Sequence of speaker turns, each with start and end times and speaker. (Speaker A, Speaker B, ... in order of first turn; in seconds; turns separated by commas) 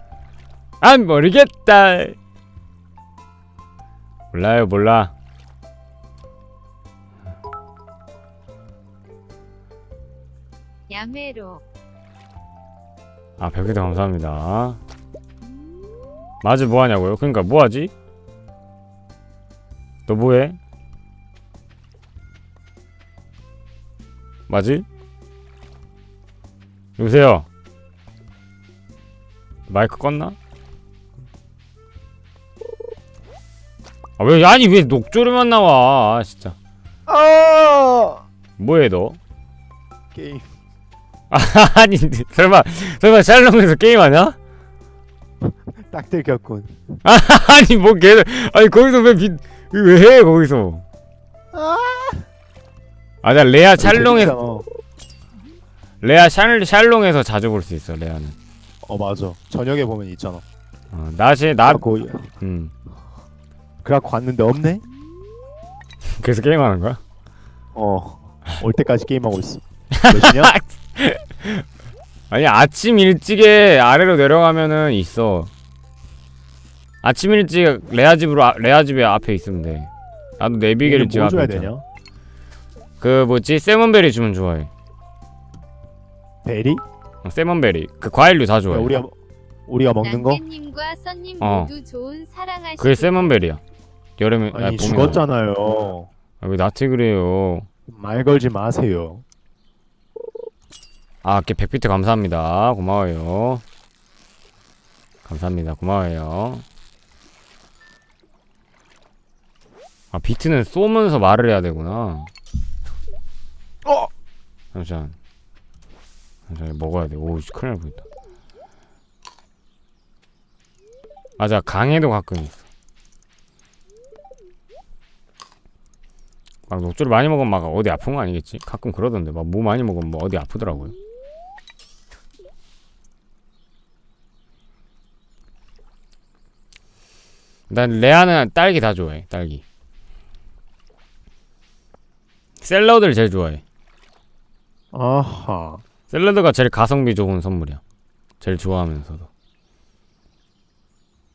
Speaker A: 0.8-2.2, Speaker A: 4.3-5.1, Speaker B: 10.9-11.6, Speaker A: 13.4-14.8, Speaker A: 16.4-17.9, Speaker A: 20.1-20.6, Speaker A: 24.5-24.9, Speaker A: 27.0-27.5, Speaker A: 29.7-30.4, Speaker A: 34.2-36.6, Speaker C: 37.1-38.2, Speaker A: 38.6-39.2, Speaker C: 40.1-40.5, Speaker A: 41.3-44.4, Speaker C: 45.4-46.8, Speaker A: 47.0-50.9, Speaker C: 51.5-52.3, Speaker A: 53.2-54.4, Speaker C: 53.8-54.7, Speaker A: 56.0-58.4, Speaker C: 58.9-60.4, Speaker A: 60.9-61.8, Speaker C: 61.7-62.3, Speaker A: 62.4-62.7, Speaker C: 63.8-64.8, Speaker A: 66.1-67.0, Speaker C: 67.8-70.5, Speaker A: 69.9-71.7, Speaker A: 72.3-75.5, Speaker A: 77.0-81.7, Speaker C: 80.8-81.8, Speaker A: 83.0-84.7, Speaker C: 86.4-86.8, Speaker A: 87.2-88.9, Speaker C: 88.7-89.1, Speaker C: 89.7-90.4, Speaker B: 90.0-93.3, Speaker A: 91.4-91.7, Speaker A: 92.8-93.6, Speaker A: 94.2-95.2, Speaker C: 94.5-96.1, Speaker A: 96.4-97.7, Speaker C: 97.9-99.2, Speaker A: 101.2-103.6, Speaker A: 105.2-106.7, Speaker A: 110.1-112.3, Speaker A: 114.7-115.2, Speaker A: 116.5-118.0, Speaker A: 121.4-122.7, Speaker A: 126.7-130.9, Speaker A: 137.7-139.6, Speaker A: 142.6-143.6, Speaker C: 144.9-145.8, Speaker A: 146.1-147.8, Speaker A: 148.4-149.3